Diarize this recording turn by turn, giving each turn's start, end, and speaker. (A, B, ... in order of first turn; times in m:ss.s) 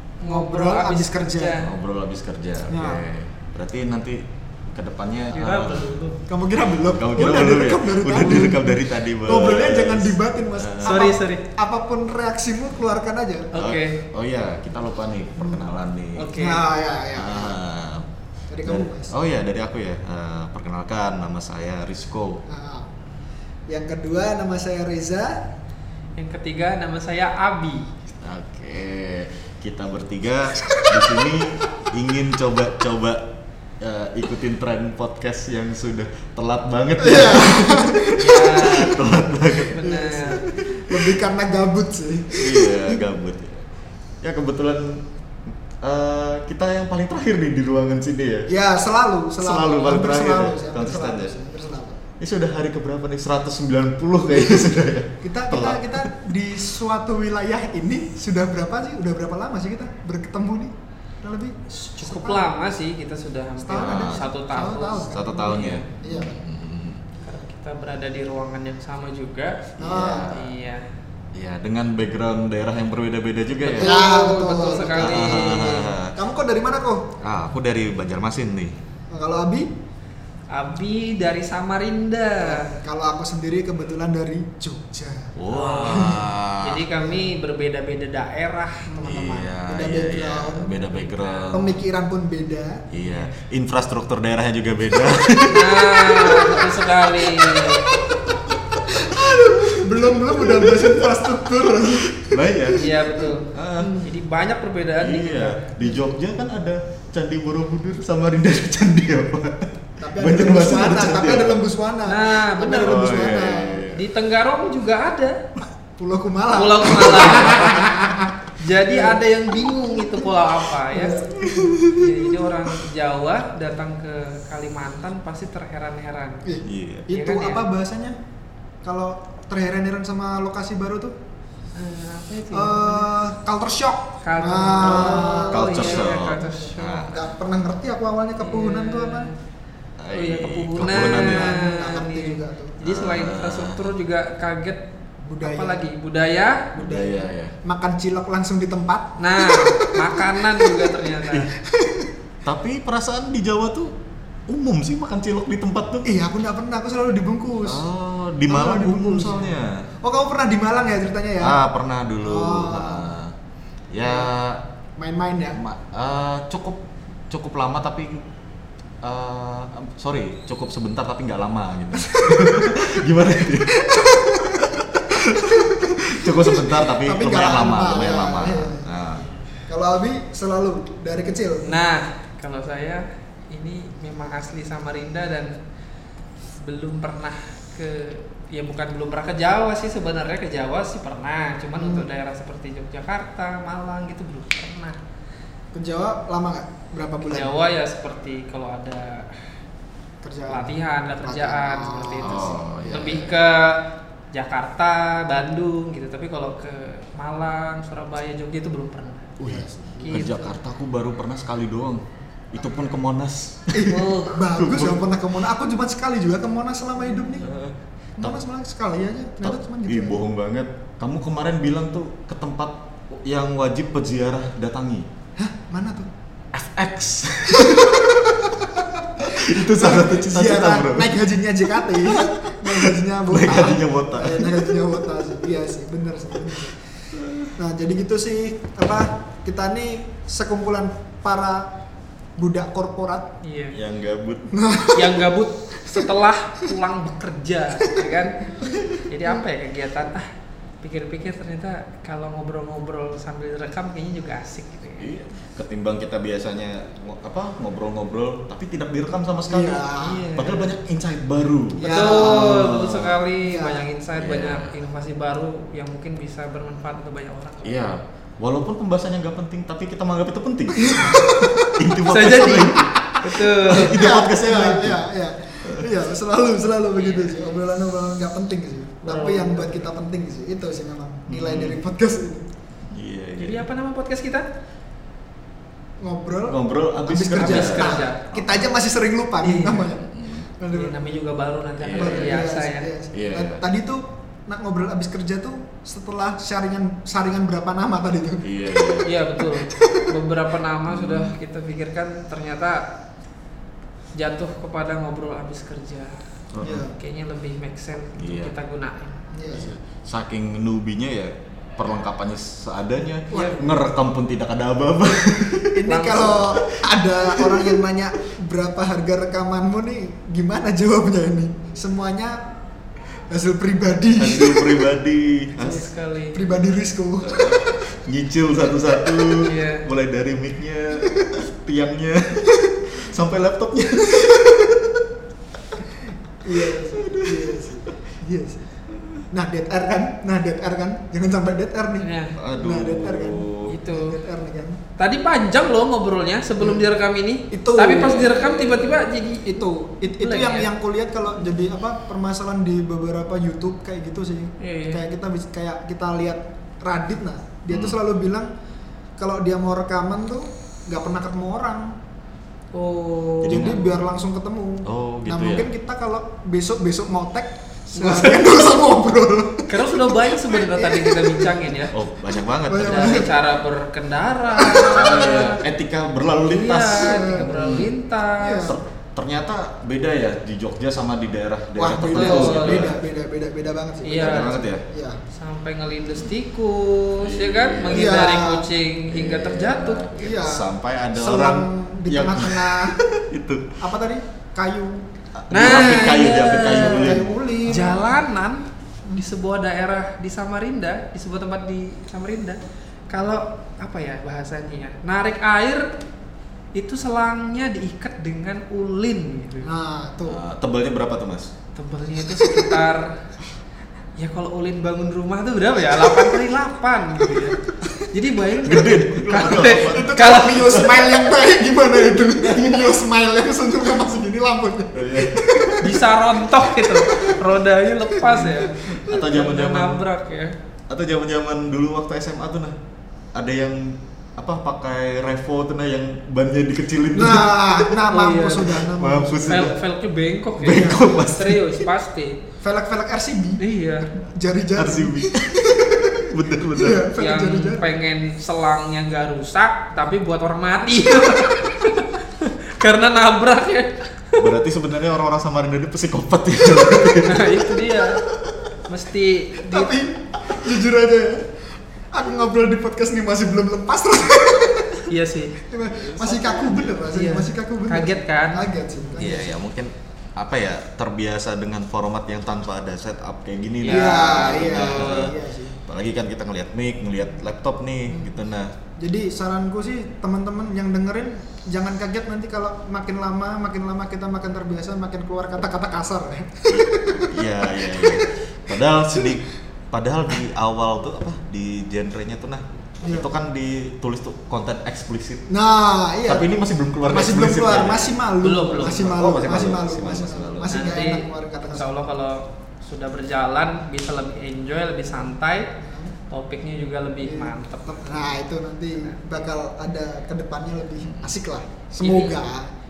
0:00.2-0:01.7 A
0:00.2-0:01.6 B
0:01.6-0:04.2 C
0:02.7-0:03.0 B
0:04.7-0:05.9 C
0:05.3-0:06.2 A
0:06.3-0:13.5 B
0:06.9-0:11.0 C
0:10.8-0:11.4 A
0:13.5-0:14.0 A
0:13.6-0:16.4 C
0:15.4-0:15.6 B
0:16.2-0:16.6 A
0:16.4-0:17.6 B
0:17.2-0:18.1 C
0:18.5-0:19.1 B
0:18.6-0:22.4 C
0:22.5-0:22.9 B
0:23.7-0:25.4 B
0:26.2-0:27.9 A
0:28.2-0:33.3 C
0:33.8-0:39.8 C
0:37.0-0:38.9 B
0:38.2-0:39.0 A
0:39.7-0:40.5 A
0:39.8-0:43.0 B
0:42.4-0:43.6 C
0:44.2-0:45.0 C
0:45.8-0:48.5 C
0:48.5-0:52.0 B
0:49.4-0:51.3 C
0:52.2-0:56.1 C
0:55.2-1:02.5 B
1:02.0-1:05.9 A
1:03.6-1:06.4 B
1:03.7-1:04.2 C
1:05.1-1:07.0 C
1:07.2-1:09.7 A
1:09.8-1:10.5 C
1:09.8-1:10.3 B
1:10.3-1:10.8 A
1:11.4-1:13.9 C
1:13.6-1:15.9 A
1:13.8-1:17.0 B
1:15.0-1:16.1 C
1:17.2-1:18.7 C
1:19.1-1:19.7 B
1:20.5-1:22.7 A
1:22.4-1:26.3 B
1:25.4-1:26.8 C
1:25.5-1:28.9 A
1:28.9-1:30.8 B
1:29.0-1:31.8 C
1:30.7-1:31.8 A
1:31.5-1:32.8 B
1:32.9-1:36.6 C
1:33.0-1:33.3 A
1:35.5-1:37.9 A
1:37.2-1:42.8 C
1:39.0-1:43.2 B
1:42.7-1:45.7 A
1:43.5-1:44.1 C
1:45.0-1:51.6 C
1:50.0-1:53.8 B
1:52.1-1:53.1 A
1:52.7-1:54.0 C
1:53.9-1:55.4 A
1:56.0-2:00.3 B
1:56.5-2:06.4 A
2:00.9-2:02.7 B
2:06.4-2:08.2 B
2:06.6-2:07.1 C
2:07.1-2:07.7 A
2:08.8-2:11.1 B
2:11.7-2:13.1 A
2:12.5-2:16.5 B
2:14.2-2:17.2 A
2:14.8-2:17.2 C
2:17.0-2:19.3 B
2:18.4-2:19.3 A
2:20.0-2:21.5 C
2:20.1-2:24.8 A
2:20.8-2:22.8 B
2:22.8-2:23.9 C
2:25.2-2:25.9 B
2:25.4-2:26.7 A
2:26.7-2:30.9 B
2:26.8-2:27.5 C
2:29.2-2:31.5 A
2:31.6-2:32.1 B
2:32.4-2:33.9 C
2:34.5-2:36.1 C
2:36.0-2:37.8 B
2:37.6-2:39.9 C
2:38.5-2:41.6 B
2:41.4-2:43.3 C
2:42.2-2:43.1 B
2:43.9-2:44.6 C
2:44.0-2:44.3 B
2:45.0-2:45.6 B
2:45.6-2:48.2 C
2:49.0-2:59.2 C
2:52.1-2:53.0 B
2:53.7-2:58.9 B
2:59.7-3:01.8 B
3:01.6-3:05.6 A
3:06.4-3:15.0 A
3:11.7-3:12.1 B
3:15.7-3:17.5 B
3:17.3-3:19.3 A
3:20.2-3:23.4 B
3:20.5-3:29.3 A
3:22.2-3:23.3 C
3:29.4-3:32.0 C
3:29.4-3:30.3 B
3:30.0-3:30.6 A
3:32.5-3:35.1 C
3:33.7-3:37.5 B
3:33.9-3:34.4 A
3:37.4-3:38.4 C
3:38.2-3:40.2 B
3:39.4-3:45.0 C
3:45.4-3:46.1 B
3:46.5-3:48.3 C
3:47.6-3:56.8 B
3:49.2-3:51.2 C
3:52.0-3:54.8 C
3:57.2-3:57.5 C
3:57.6-4:01.7 B
4:02.4-4:03.3 B
4:03.4-4:03.8 A
4:03.7-4:04.5 C
4:04.5-4:05.3 B
4:05.0-4:08.5 A
4:07.9-4:09.4 B
4:09.1-4:10.3 A
4:10.8-4:15.1 A
4:15.0-4:23.2 C
4:19.5-4:20.2 B
4:20.0-4:20.7 A
4:21.8-4:22.8 B
4:21.8-4:27.9 A
4:23.4-4:23.8 B
4:24.2-4:24.8 C
4:27.6-4:35.0 C
4:30.8-4:31.9 B
4:32.1-4:34.0 A
4:33.7-4:42.4 B
4:36.9-4:37.5 A
4:39.0-4:39.9 A
4:41.3-4:41.8 C
4:42.9-4:43.6 C
4:43.4-4:44.4 A
4:46.0-4:50.0 B
4:46.5-4:48.6 C
4:47.4-4:48.2 A
4:49.4-4:50.0 A
4:50.0-4:50.5 C
4:50.6-4:51.0 B
4:50.7-4:52.9 A
4:51.8-4:52.4 C
4:51.9-5:00.0 B
4:53.1-4:53.6 C
4:58.4-4:59.1 C
4:59.0-5:02.9 A
5:00.9-5:01.4 C
5:04.1-5:06.2 A
5:06.5-5:06.9 C
5:06.6-5:07.0 B
5:06.8-5:09.2 A
5:08.2-5:08.5 C
5:09.3-5:09.7 B
5:09.5-5:15.9 C
5:13.3-5:13.8 B
5:13.3-5:13.7 A
5:15.7-5:22.4 B
5:15.9-5:16.5 A
5:16.5-5:16.8 C
5:17.4-5:17.7 C
5:23.3-5:24.9 B
5:24.2-5:25.8 C
5:25.6-5:27.8 B
5:25.6-5:26.4 A
5:27.2-5:35.0 C
5:28.9-5:29.3 B
5:29.4-5:29.9 A
5:31.0-5:31.4 B
5:36.4-5:38.6 B
5:36.6-5:37.7 C
5:39.3-5:44.8 B
5:42.0-5:42.4 A
5:42.4-5:43.7 C
5:43.7-5:44.2 A
5:45.0-5:49.6 A
5:46.6-5:46.9 B
5:47.5-5:48.4 B
5:48.0-5:49.1 C
5:49.3-5:58.5 B
5:50.2-5:50.7 A
5:54.6-5:55.0 A
5:57.7-5:58.0 C
5:59.2-6:01.9 B
6:02.7-6:03.8 A
6:03.4-6:03.8 C
6:03.4-6:11.7 B
6:04.8-6:05.7 C
6:08.0-6:08.6 A
6:09.7-6:12.0 A
6:11.9-6:13.3 C
6:12.4-6:13.3 B
6:12.8-6:15.6 A
6:14.5-6:15.1 B
6:14.6-6:17.9 C
6:16.5-6:18.7 A
6:17.0-6:17.8 B
6:18.4-6:18.8 B
6:18.7-6:23.0 C
6:21.8-6:25.2 B
6:22.1-6:22.9 A
6:24.0-6:24.6 A
6:24.2-6:24.8 C
6:25.3-6:30.1 A
6:27.2-6:28.2 C
6:27.9-6:28.7 B
6:29.1-6:33.7 C
6:30.1-6:33.0 B
6:33.8-6:35.0 B
6:35.4-6:38.2 C
6:35.5-6:45.9 A
6:36.5-6:38.0 B
6:46.7-6:49.7 A
6:49.6-6:50.4 B
6:50.3-6:51.5 C
6:51.7-6:53.1 A
6:52.4-6:52.7 B
6:54.2-7:00.9 A
6:58.6-7:01.2 C
6:59.3-7:06.0 B
7:02.4-7:02.9 A
7:04.9-7:05.9 C
7:05.8-7:10.5 A
7:06.6-7:07.3 B
7:08.1-7:08.7 B
7:08.8-7:10.0 C
7:10.9-7:12.8 C
7:13.3-7:18.0 C
7:17.1-7:19.8 B
7:18.1-7:18.7 A
7:18.8-7:19.7 C
7:19.5-7:22.4 A
7:20.6-7:21.8 C
7:20.6-7:21.0 B
7:22.6-7:23.6 B
7:23.6-7:24.1 A
7:24.3-7:27.8 B
7:24.8-7:27.1 C
7:27.2-7:34.4 A
7:30.9-7:31.7 B
7:34.4-7:37.7 C
7:37.2-7:38.2 A
7:38.9-7:39.9 A
7:39.6-7:41.6 B
7:42.1-7:45.0 B
7:45.1-7:45.6 A
7:45.7-7:49.5 B
7:45.9-7:47.0 C
7:47.1-7:49.3 A
7:49.2-7:58.7 C
7:53.8-7:55.3 A
7:53.9-7:55.8 B
7:58.1-7:58.3 B
7:59.0-8:08.2 B
8:06.7-8:15.5 C
8:15.5-8:16.5 B
8:16.2-8:18.1 C
8:17.0-8:21.9 B
8:18.4-8:19.1 A
8:18.8-8:20.9 C
8:20.7-8:25.7 A
8:25.8-8:26.1 B
8:26.3-8:28.3 A
8:27.2-8:32.7 B
8:28.9-8:29.2 A
8:31.0-8:31.3 C
8:32.0-8:32.4 A